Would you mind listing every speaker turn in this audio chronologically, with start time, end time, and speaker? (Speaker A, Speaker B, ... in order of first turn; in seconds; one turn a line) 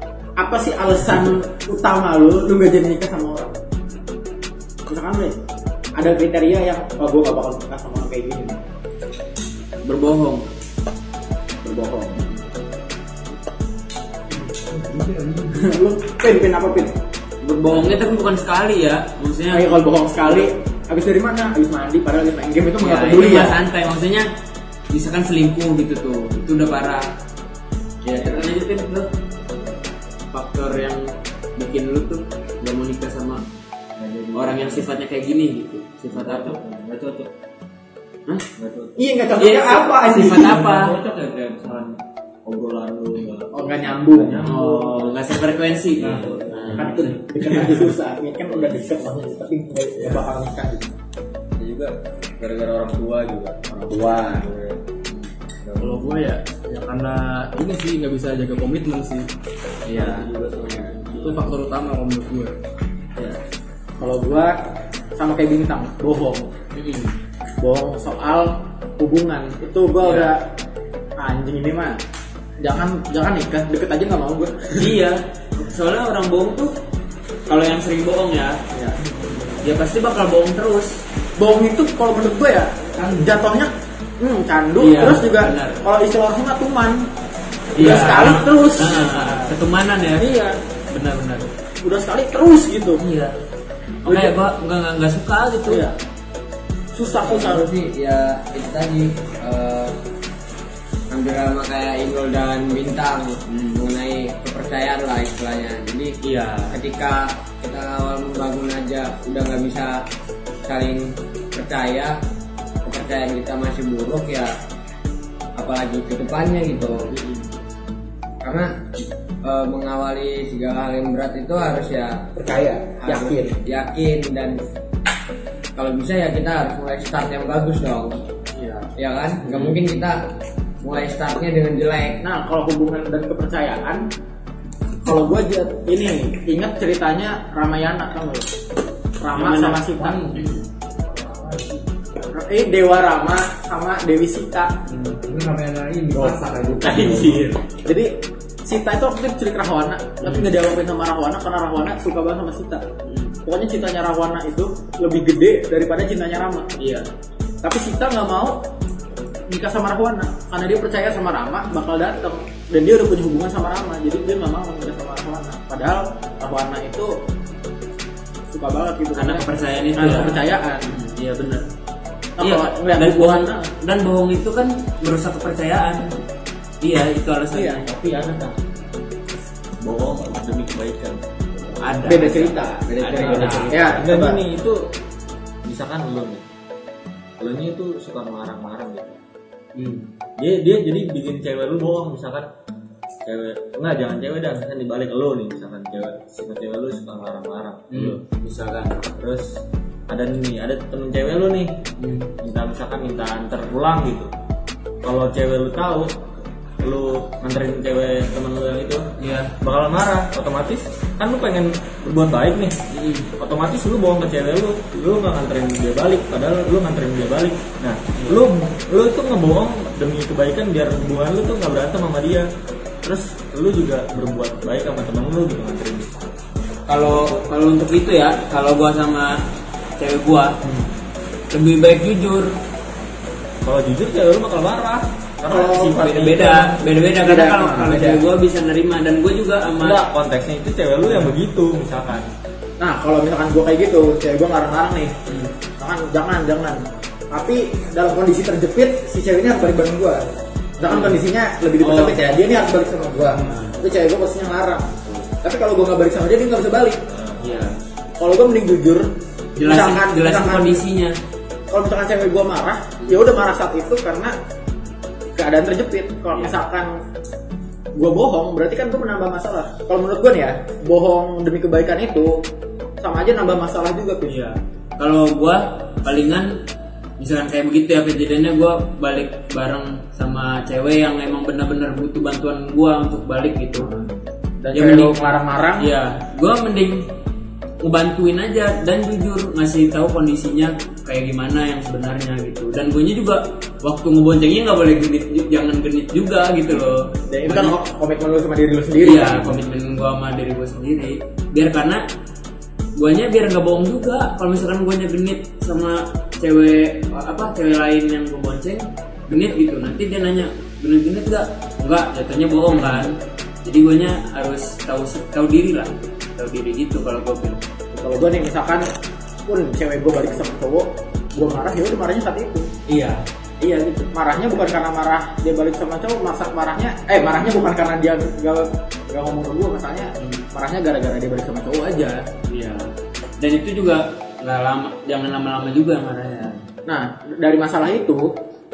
Speaker A: 0.4-3.6
Speaker A: 4.9-5.4
Speaker A: 6.0-8.6
Speaker B: 9.8-10.5
Speaker A: 11.6-12.2
Speaker C: 14.7-15.6
Speaker A: 15.5-17.0
Speaker B: 17.4-20.5
Speaker A: 19.5-23.6
Speaker B: 22.8-24.3
Speaker B: 24.9-27.1
Speaker B: 28.0-29.1
Speaker B: 30.3-33.4
Speaker D: 34.0-34.9
Speaker B: 34.3-36.6
Speaker D: 36.1-37.3
Speaker D: 38.6-39.0
Speaker A: 39.0-40.6
Speaker B: 39.4-41.0
Speaker D: 40.3-45.3
Speaker A: 43.5-44.6
Speaker B: 44.4-47.8
Speaker D: 45.9-47.1
Speaker A: 46.7-50.9
Speaker D: 51.6-54.8
Speaker A: 53.7-54.5
Speaker D: 55.6-56.3
Speaker C: 55.8-59.3
Speaker B: 59.9-60.3
Speaker D: 59.9-61.5
Speaker C: 61.2-62.5
Speaker A: 64.0-64.6
Speaker A: 65.2-66.5
Speaker B: 66.7-67.2
Speaker A: 67.6-70.5
Speaker B: 70.0-70.3
Speaker A: 71.2-72.0
Speaker A: 72.6-74.9
Speaker B: 74.8-76.8
Speaker B: 77.5-78.6
Speaker A: 78.7-79.0
Speaker B: 79.6-81.0
Speaker A: 81.4-87.1
Speaker C: 83.0-83.3
Speaker B: 84.8-85.8
Speaker B: 87.8-91.5
Speaker A: 87.8-89.5
Speaker A: 90.2-90.5
Speaker A: 91.8-93.0
Speaker B: 93.0-93.3
Speaker B: 94.0-95.8
Speaker A: 94.1-94.3
Speaker A: 95.7-96.0
Speaker A: 96.9-97.7
Speaker E: 97.2-100.0
Speaker E: 101.1-106.2
Speaker B: 106.2-106.8
Speaker E: 106.7-110.0
Speaker E: 110.6-112.2
Speaker E: 112.8-114.5
Speaker E: 115.6-117.1
Speaker E: 118.4-118.7
Speaker E: 119.4-122.3
Speaker A: 122.4-123.6
Speaker E: 123.0-124.6
Speaker E: 125.8-128.2
Speaker A: 128.6-128.8
Speaker E: 129.0-130.2
Speaker B: 129.4-129.8
Speaker E: 130.8-132.2
Speaker A: 132.2-134.1
Speaker A: 135.0-138.5
Speaker A: 139.2-140.3
Speaker B: 139.3-140.6
Speaker C: 141.1-141.8
Speaker A: 142.3-144.8
Speaker C: 145.2-147.5
Speaker A: 146.1-147.3
Speaker B: 146.8-147.6
Speaker A: 147.8-152.8
Speaker B: 150.2-150.5
Speaker B: 153.0-153.4
Speaker A: 153.4-156.7
Speaker B: 156.8-157.1
Speaker A: 157.6-158.6
Speaker A: 159.5-167.2
Speaker A: 168.5-170.9
Speaker B: 169.2-171.7
Speaker A: 172.4-173.7
Speaker B: 172.4-176.2
Speaker B: 176.8-177.9
Speaker D: 177.8-178.6
Speaker D: 179.8-181.8
Speaker B: 181.8-184.1
Speaker A: 182.0-184.4
Speaker D: 183.2-184.9
Speaker D: 185.7-186.4
Speaker D: 187.4-189.2
Speaker B: 189.8-190.1
Speaker D: 190.4-192.5
Speaker D: 193.2-198.2
Speaker B: 197.9-199.0
Speaker D: 199.1-199.6
Speaker D: 200.1-201.8
Speaker B: 202.0-202.3
Speaker D: 202.4-204.3
Speaker D: 205.0-209.1
Speaker B: 209.2-209.5
Speaker D: 209.6-212.8
Speaker B: 212.9-213.3
Speaker D: 213.4-222.5
Speaker B: 218.2-218.4
Speaker D: 223.0-226.3
Speaker B: 226.9-229.4
Speaker D: 227.1-227.4
Speaker B: 230.0-230.6
Speaker B: 231.5-232.6
Speaker D: 233.6-236.8
Speaker A: 235.5-236.1
Speaker B: 235.9-240.0
Speaker A: 237.2-238.2
Speaker D: 239.8-242.3
Speaker B: 241.1-241.3
Speaker A: 242.8-245.2
Speaker B: 245.3-245.5
Speaker A: 245.8-250.2
Speaker A: 250.8-257.1
Speaker B: 250.9-251.2
Speaker B: 251.8-252.3
Speaker B: 253.4-253.8
Speaker D: 257.1-257.7
Speaker B: 257.4-257.8
Speaker A: 258.2-260.8
Speaker B: 259.6-261.2
Speaker A: 261.7-264.4
Speaker A: 265.4-266.9
Speaker B: 266.3-266.6
Speaker A: 267.9-272.4
Speaker A: 273.0-274.4
Speaker B: 274.3-276.6
Speaker B: 277.2-283.9
Speaker A: 283.8-285.9
Speaker B: 284.7-285.2
Speaker B: 285.8-287.1
Speaker B: 287.8-297.8
Speaker A: 297.3-299.6
Speaker B: 299.0-302.1
Speaker B: 303.0-317.6
Speaker A: 317.9-318.9
Speaker A: 319.5-322.7
Speaker B: 322.9-324.1
Speaker A: 324.1-332.3
Speaker B: 332.5-336.6
Speaker A: 336.9-338.3